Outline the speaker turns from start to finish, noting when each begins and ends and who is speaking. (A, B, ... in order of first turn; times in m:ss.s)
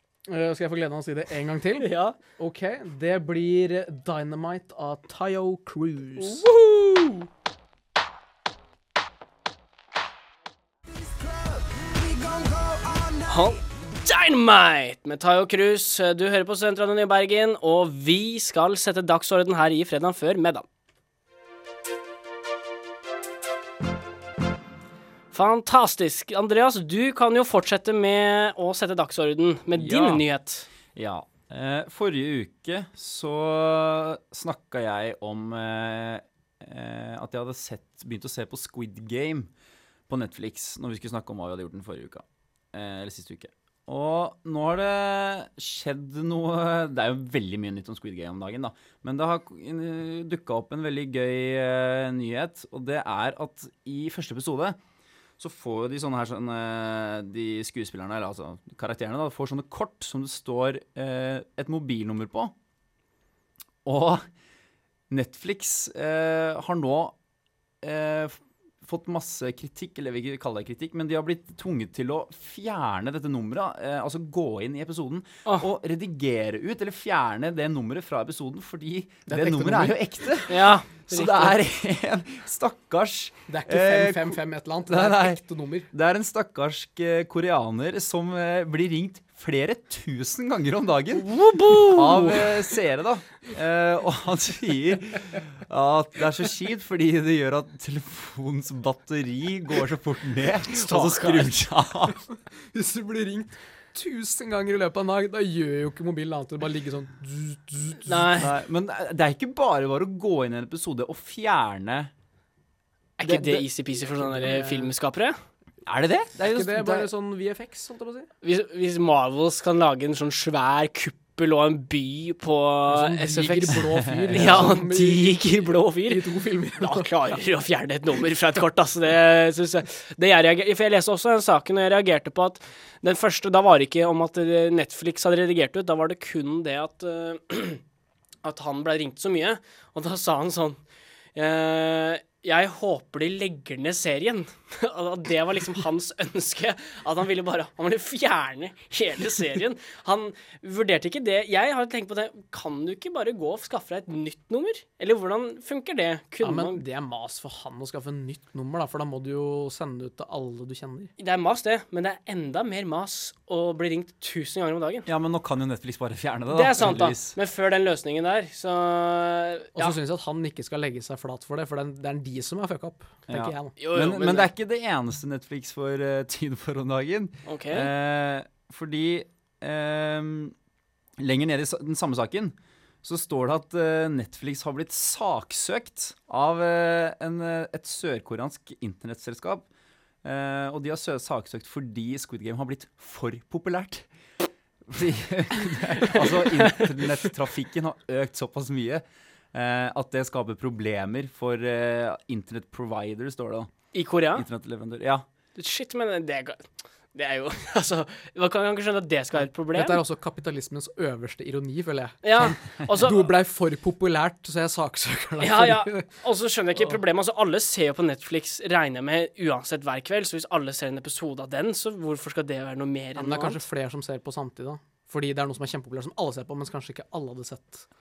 0:00.3-0:06.4 A
0:01.8-0:02.2 B
0:06.2-0:07.3 B
0:13.2-0:20.6 B
0:25.3-0:30.7 B
0:29.7-0:30.2 C
0:30.9-0:39.5 C
0:40.1-0:54.8 C
0:55.4-1:02.5 C
1:03.8-1:04.2 C
1:05.1-1:07.1 C
1:07.8-1:24.4 C
1:19.3-1:20.0 A
1:20.5-1:21.6 B
1:23.5-1:25.9 A
1:24.9-1:25.4 C
1:25.9-1:31.3 C
1:31.2-1:32.4 B
1:31.7-1:32.2 A
1:31.9-1:42.2 C
1:40.7-1:41.5 B
1:42.7-1:48.4 A
1:48.0-1:48.5 B
1:48.3-1:52.1 C
1:53.2-1:55.4 B
1:53.3-1:53.6 C
1:54.1-1:54.9 A
1:55.8-1:57.1 C
1:56.4-1:58.3 A
1:58.4-2:06.2 B
2:02.9-2:07.3 A
2:03.9-2:04.7 C
2:06.8-2:17.8 B
2:18.4-2:20.8 B
2:21.3-2:36.8 B
2:36.4-2:41.1 A
2:41.2-2:45.1 B
2:45.0-2:47.4 C
2:46.5-2:50.0 B
2:49.8-2:53.7 A
2:53.3-3:00.5 C
2:53.8-2:54.5 B
2:57.4-2:57.9 B
3:01.2-3:09.6 C
3:10.2-3:14.0 C
3:14.9-3:23.7 C
3:23.9-3:24.4 B
3:24.3-3:25.2 C
3:25.6-3:30.0 B
3:29.6-3:36.1 A
3:32.2-3:33.2 B
3:35.4-3:43.6 B
3:43.2-3:47.8 A